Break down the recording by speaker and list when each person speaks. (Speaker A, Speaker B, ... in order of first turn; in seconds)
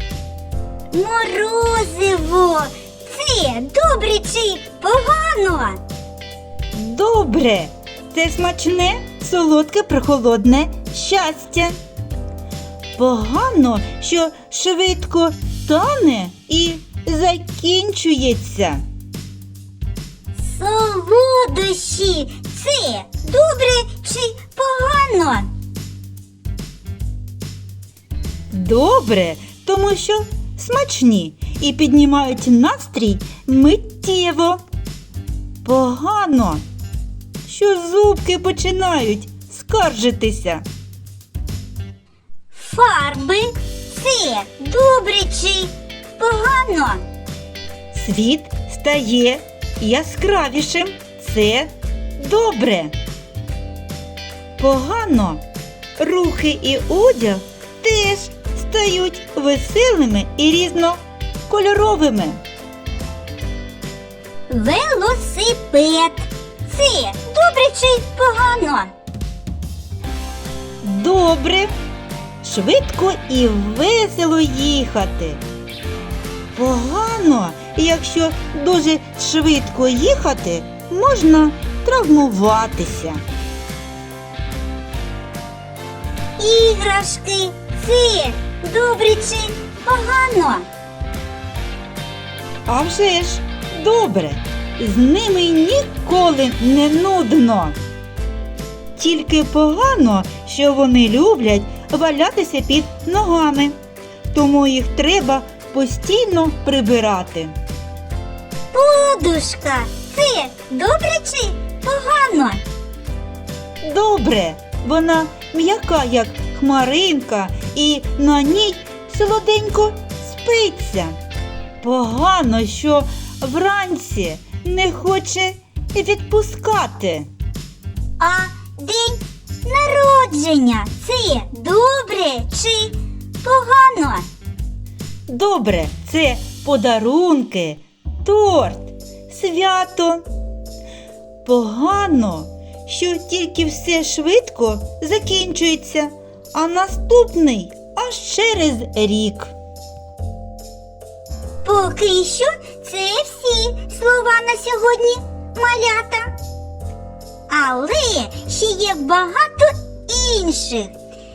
Speaker A: 0.9-5.8, 20.4-25.5, 42.5-47.0, 64.5-68.9, 86.4-90.7, 108.7-112.6, 128.2-134.3, 151.6-156.3, 157.5-160.9
Speaker B: 6.7-11.8, 12.9-18.8, 28.5-34.6, 35.6-36.6, 37.4-40.6, 47.9-52.9, 54.6-55.4, 56.0-62.4, 70.8-71.7, 72.4-75.4, 76.5-83.2, 92.7-97.8, 99.0-103.8, 104.3-107.5, 113.8-121.2, 121.8-127.3, 135.3-140.2, 141.4-149.5